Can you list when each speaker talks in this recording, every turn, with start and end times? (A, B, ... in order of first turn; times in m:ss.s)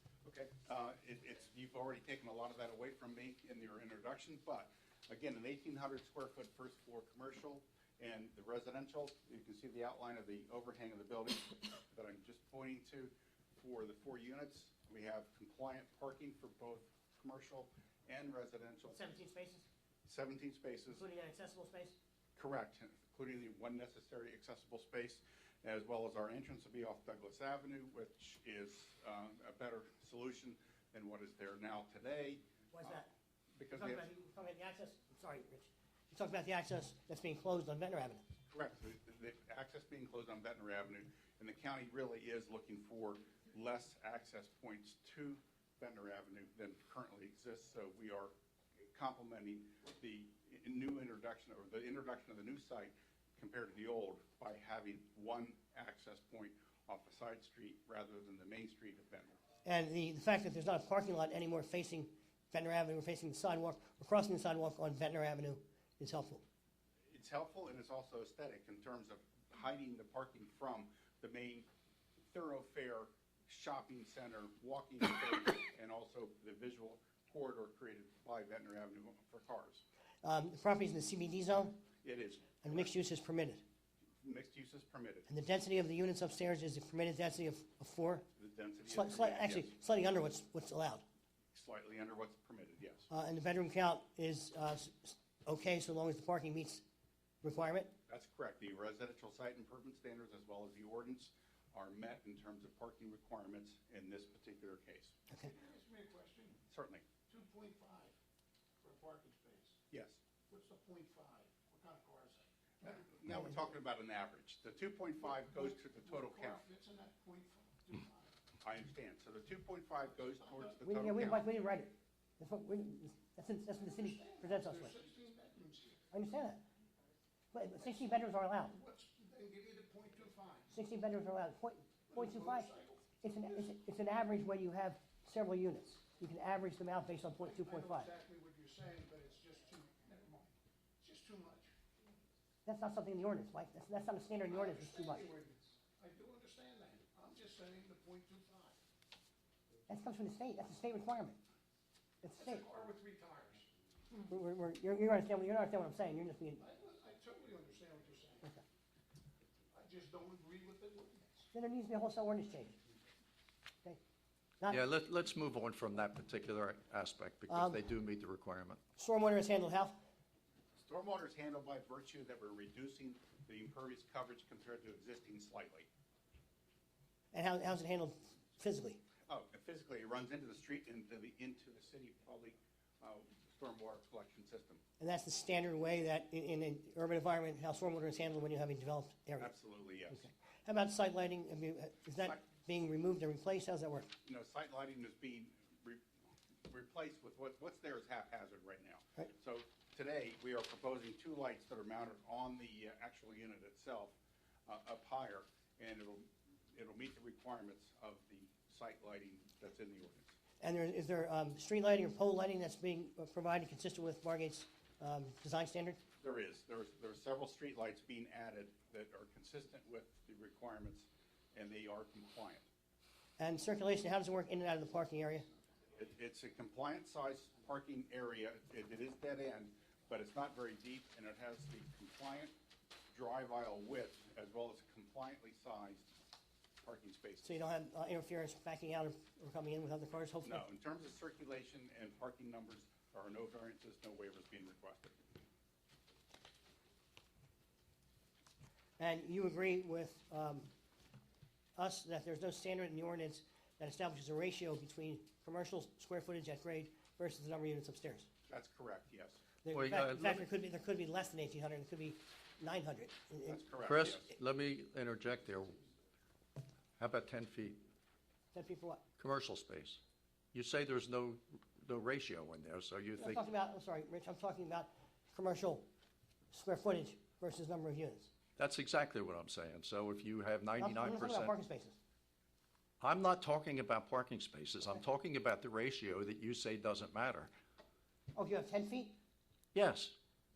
0:00.2-0:19.1 A
0:18.9-0:19.7 B
0:20.0-0:21.0 A
0:21.0-0:22.0 B
0:22.4-0:33.0 A
0:32.7-0:33.1 B
0:33.6-0:34.1 A
0:33.7-0:38.2 B
0:38.5-0:48.3 A
0:48.9-0:59.4 A
0:59.6-1:06.4 B
1:07.1-1:11.7 A
1:12.2-1:19.8 A
1:20.2-1:21.8 B
1:22.0-1:22.9 A
1:22.6-1:23.6 B
1:24.2-1:25.3 A
1:25.3-1:28.2 B
1:28.4-1:29.7 A
1:28.8-1:31.0 B
1:31.5-1:33.1 A
1:33.1-1:36.8 B
1:37.4-1:37.9 B
1:38.1-1:45.1 A
1:45.4-1:46.6 C
1:46.7-1:47.1 A
1:47.2-1:48.1 C
1:48.8-1:49.8 C
1:49.9-1:50.2 A
1:50.5-1:53.1 C
1:52.9-1:56.6 A
1:55.2-1:58.4 C
1:58.6-2:01.4 A
2:00.8-2:05.0 B
2:03.8-2:06.0 C
2:06.1-2:06.6 B
2:07.5-2:08.7 B
2:08.7-2:10.7 C
2:10.7-2:18.1 B
2:12.1-2:13.7 C
2:17.4-2:21.7 C
2:22.6-2:25.3 B
2:24.5-2:28.8 C
2:29.9-2:31.4 B
2:32.2-2:32.6 B
2:32.4-2:33.7 C
2:34.2-2:36.6 B
2:36.6-2:38.5 C
2:39.7-2:41.5 C
2:41.5-2:42.8 B
2:44.7-2:48.8 D
2:47.5-2:47.8 B
2:49.0-2:50.0 B
2:50.8-2:55.9 A
2:57.3-2:59.0 B
2:59.3-3:04.8 A
3:05.0-3:09.5 B
3:09.4-3:10.2 A
3:10.1-3:14.1 B
3:14.2-3:16.0 A
3:16.7-3:24.2 A
3:24.7-3:30.4 A
3:30.6-3:36.0 B
3:36.2-3:42.6 A
3:43.4-3:45.5 B
3:46.0-3:52.5 A
3:53.1-3:56.1 A
3:56.8-3:57.6 A
3:57.4-4:00.6 B
4:00.4-4:05.2 A
4:09.0-4:10.7 B
4:11.8-4:18.3 B
4:18.5-4:19.4 A
4:19.6-4:23.6 B
4:19.7-4:20.4 D
4:23.4-4:24.3 A
4:23.8-4:25.8 D
4:27.0-4:27.8 D
4:28.5-4:29.0 B
4:29.2-4:30.0 D
4:30.5-4:33.4 D
4:33.2-4:35.8 B
4:36.5-4:38.3 B
4:38.6-4:41.5 D
4:40.8-4:42.0 B
4:43.0-4:47.5 D
4:48.3-4:49.2 B
4:49.7-4:50.2 D